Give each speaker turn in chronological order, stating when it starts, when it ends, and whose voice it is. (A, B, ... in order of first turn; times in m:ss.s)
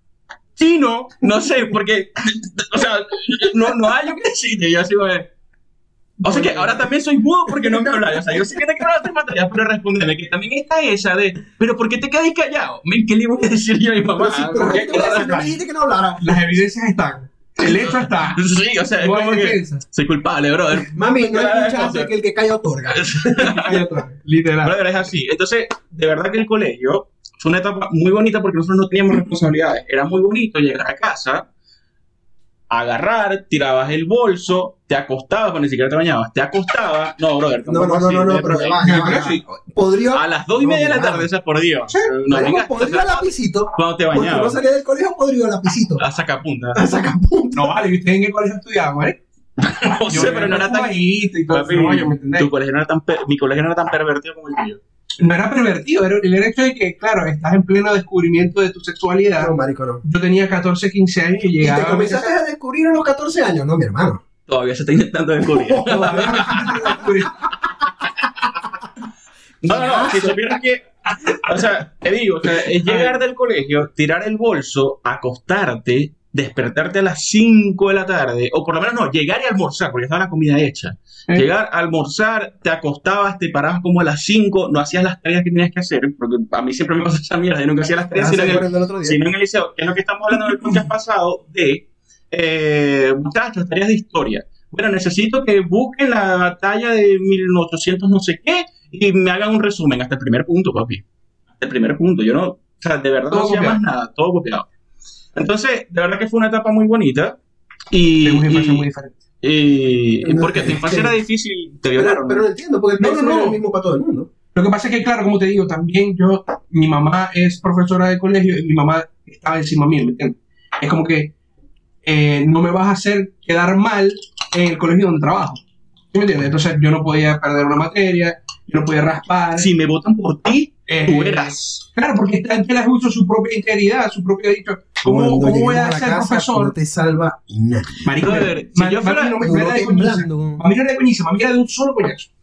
0:00.6-0:05.3 A
0:06.2-0:06.8 B
0:06.2-0:15.6 A
0:14.2-0:16.4 C
0:14.6-0:15.3 B
0:16.2-0:18.4 B
0:17.7-0:22.1 A
0:19.0-0:19.8 B
0:20.9-0:23.5 C
0:22.9-0:23.8 A
0:23.4-0:24.8 B
0:24.6-0:31.4 A
0:32.7-0:39.0 A
0:37.7-0:41.3 C
0:38.8-0:39.4 B
0:40.1-0:44.6 A
0:42.3-0:46.0 C
0:46.0-0:46.8 A
0:46.7-0:47.7 C
0:47.6-0:52.5 B
0:49.6-0:54.8 A
0:55.2-0:59.5 B
0:59.4-1:00.0 C
1:00.0-1:02.3 B
1:01.6-1:04.2 C
1:04.5-1:07.0 A
1:05.8-1:07.1 C
1:05.8-1:07.5 B
1:09.6-1:41.0 A
1:09.7-1:10.4 C
1:12.4-1:13.2 B
1:28.2-1:29.3 C
1:30.5-1:30.8 B
1:41.6-1:44.7 A
1:43.3-1:43.8 B
1:45.4-1:47.4 A
1:47.9-1:48.9 A
1:48.2-1:49.2 B
1:49.4-1:52.4 A
1:50.2-1:51.2 C
1:52.0-1:54.3 C
1:53.0-1:53.6 B
1:54.6-2:01.3 B
2:02.0-2:05.6 B
2:06.1-2:09.7 B
2:09.6-2:11.8 A
2:10.9-2:16.7 B
2:15.0-2:18.4 C
2:18.0-2:22.3 B
2:18.2-2:19.4 A
2:19.4-2:20.6 C